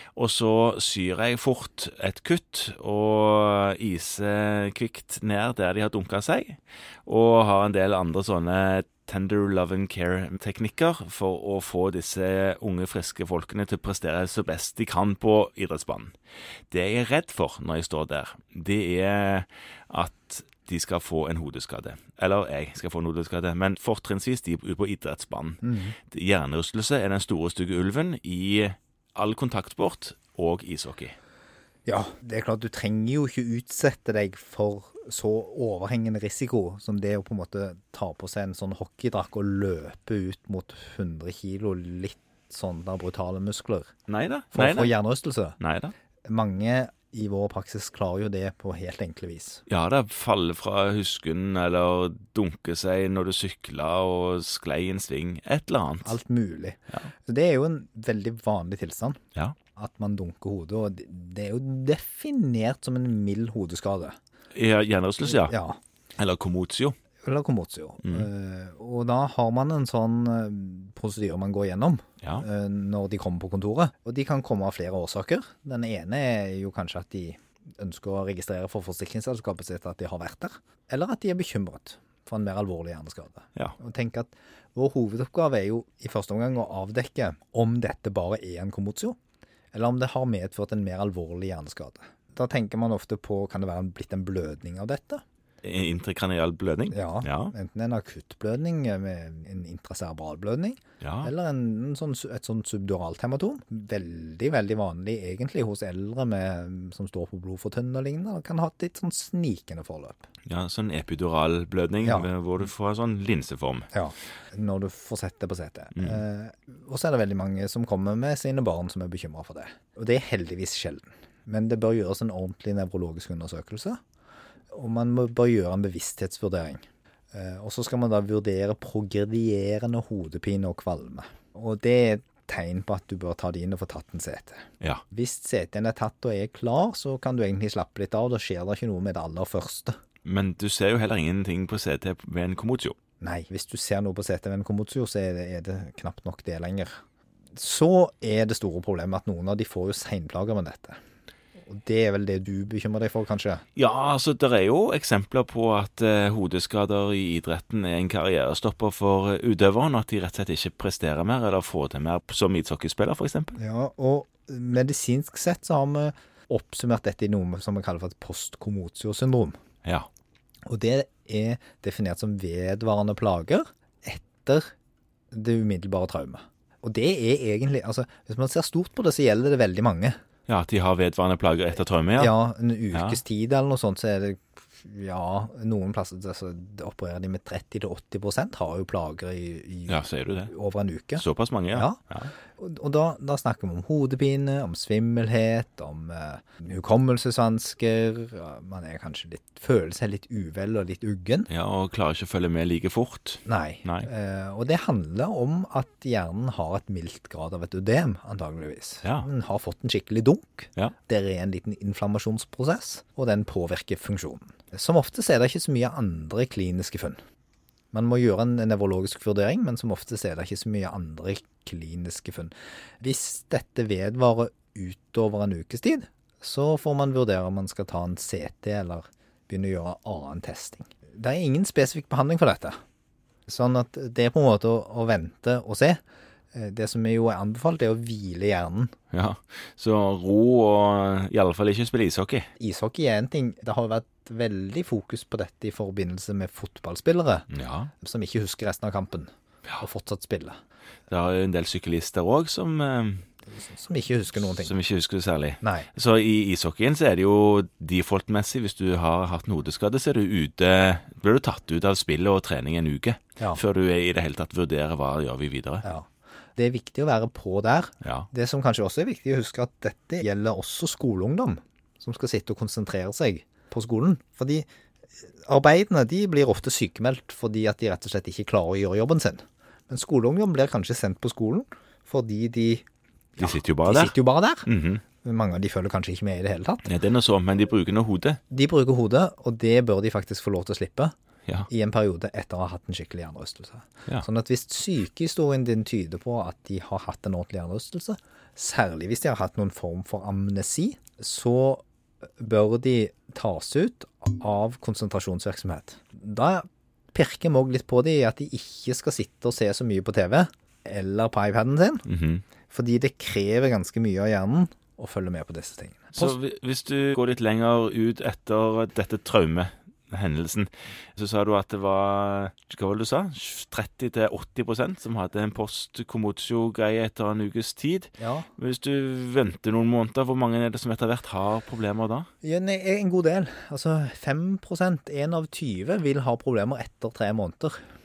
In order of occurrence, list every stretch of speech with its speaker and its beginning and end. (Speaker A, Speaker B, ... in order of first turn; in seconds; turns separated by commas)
Speaker A: 0.1-16.1, Speaker A: 16.7-31.1, Speaker B: 25.6-26.0, Speaker B: 31.9-43.9, Speaker A: 44.1-44.9, Speaker B: 44.5-45.6, Speaker A: 45.6-45.9, Speaker B: 46.3-49.6, Speaker A: 49.7-56.2, Speaker B: 56.0-59.2, Speaker B: 59.8-64.2, Speaker A: 64.5-65.5, Speaker B: 65.3-65.8, Speaker A: 66.2-67.0, Speaker B: 67.2-89.2, Speaker B: 89.7-95.2, Speaker A: 95.6-97.5, Speaker B: 96.9-110.3, Speaker A: 101.0-101.3, Speaker A: 110.5-113.9, Speaker B: 113.9-124.0, Speaker B: 124.7-139.9, Speaker A: 140.2-142.9, Speaker B: 143.2-147.0, Speaker B: 147.5-151.0, Speaker B: 151.6-153.6, Speaker A: 153.8-163.6, Speaker B: 163.6-169.6, Speaker B: 170.7-174.7, Speaker B: 175.3-180.2, Speaker A: 180.5-182.3, Speaker B: 182.2-192.0, Speaker A: 182.9-183.2, Speaker A: 189.9-190.5, Speaker A: 191.2-192.3, Speaker B: 192.5-201.5, Speaker A: 201.5-204.1, Speaker B: 203.4-217.2, Speaker B: 217.9-232.8, Speaker B: 233.5-236.0, Speaker B: 236.5-238.9, Speaker A: 239.1-242.5, Speaker B: 242.6-247.5, Speaker A: 247.5-247.9, Speaker B: 248.0-250.6, Speaker A: 251.1-253.2, Speaker B: 253.5-254.8, Speaker A: 254.4-265.8, Speaker B: 255.6-255.9, Speaker B: 265.8-274.7, Speaker A: 268.0-268.3, Speaker B: 275.2-282.8, Speaker A: 283.4-284.1, Speaker B: 283.4-284.7, Speaker A: 284.6-285.0, Speaker B: 285.2-286.9, Speaker A: 286.9-288.4, Speaker B: 288.5-291.1, Speaker B: 291.7-301.8, Speaker B: 302.4-312.1, Speaker A: 312.1-312.4, Speaker B: 312.7-316.4, Speaker A: 316.1-332.3, Speaker B: 328.2-328.5, Speaker B: 332.4-337.8